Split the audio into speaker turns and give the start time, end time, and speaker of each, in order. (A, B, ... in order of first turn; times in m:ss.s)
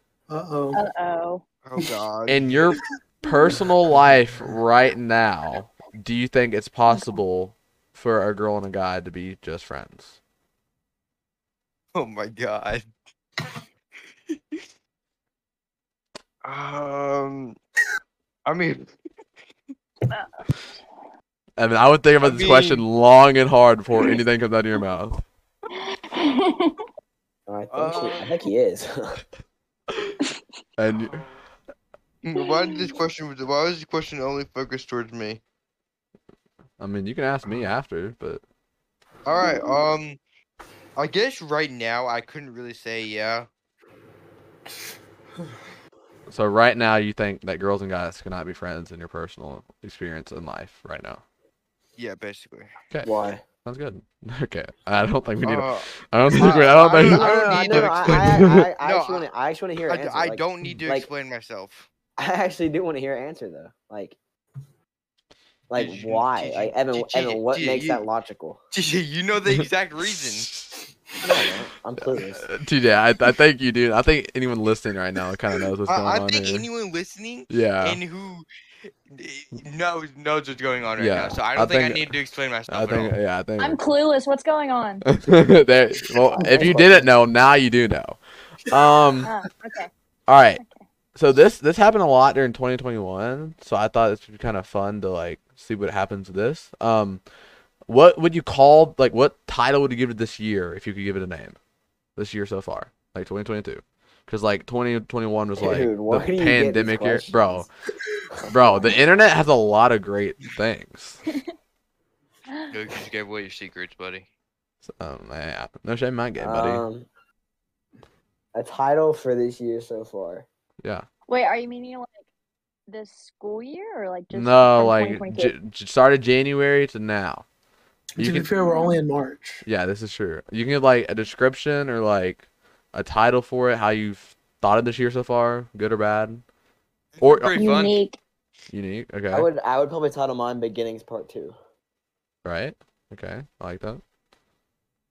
0:00.3-0:00.8 A
0:00.7-0:01.4 B
0:01.6-0:02.5 C
0:02.3-0:10.2 D
0:06.9-0:07.2 B
0:11.9-0:12.9 C
0:14.3-0:14.6 C
0:16.4-0:17.6 C
0:18.4-0:18.9 C
0:21.6-0:25.2 D
0:22.2-0:22.8 C
0:25.7-0:26.8 B
0:27.5-0:29.2 E
0:27.7-0:28.4 C
0:30.8-0:31.2 D
0:30.9-0:31.4 C
0:32.2-0:35.4 C
0:32.4-0:32.9 B
0:36.8-0:38.4 D
0:39.2-0:40.2 C
0:41.0-0:43.5 C
0:46.3-0:51.2 D
0:52.0-0:52.7 C
0:53.0-0:53.4 E
0:53.6-0:58.6 D
0:55.4-0:59.2 C
0:57.1-1:01.1 E
0:59.8-1:01.9 C
1:02.2-1:04.2 E
1:05.7-1:08.6 E
1:05.7-1:08.0 C
1:08.7-1:10.5 C
1:09.5-1:10.7 D
1:11.2-1:12.5 E
1:12.0-1:16.7 D
1:15.9-1:18.4 C
1:17.5-1:18.0 D
1:19.1-1:23.2 C
1:21.0-1:22.1 D
1:22.7-1:23.8 D
1:23.6-1:25.0 B
1:25.0-1:29.3 D
1:26.4-1:26.7 A
1:26.4-1:27.0 E
1:29.2-1:29.9 B
1:30.3-1:30.6 D
1:31.2-1:37.2 D
1:37.9-1:41.6 D
1:42.2-1:47.7 D
1:45.6-1:47.6 E
1:48.3-1:49.0 E
1:48.5-1:51.2 D
1:52.7-1:54.3 C
1:54.8-1:56.8 D
1:56.4-1:57.1 E
1:58.5-2:00.5 E
2:01.3-2:02.3 B
2:02.9-2:05.5 B
2:04.3-2:07.4 D
2:08.2-2:08.5 D
2:08.2-2:09.6 A
2:08.6-2:09.0 B
2:09.6-2:16.4 D
2:17.2-2:18.0 C
2:17.2-2:17.7 D
2:17.5-2:18.2 B
2:18.7-2:19.5 D
2:19.3-2:21.5 E
2:22.4-2:24.0 D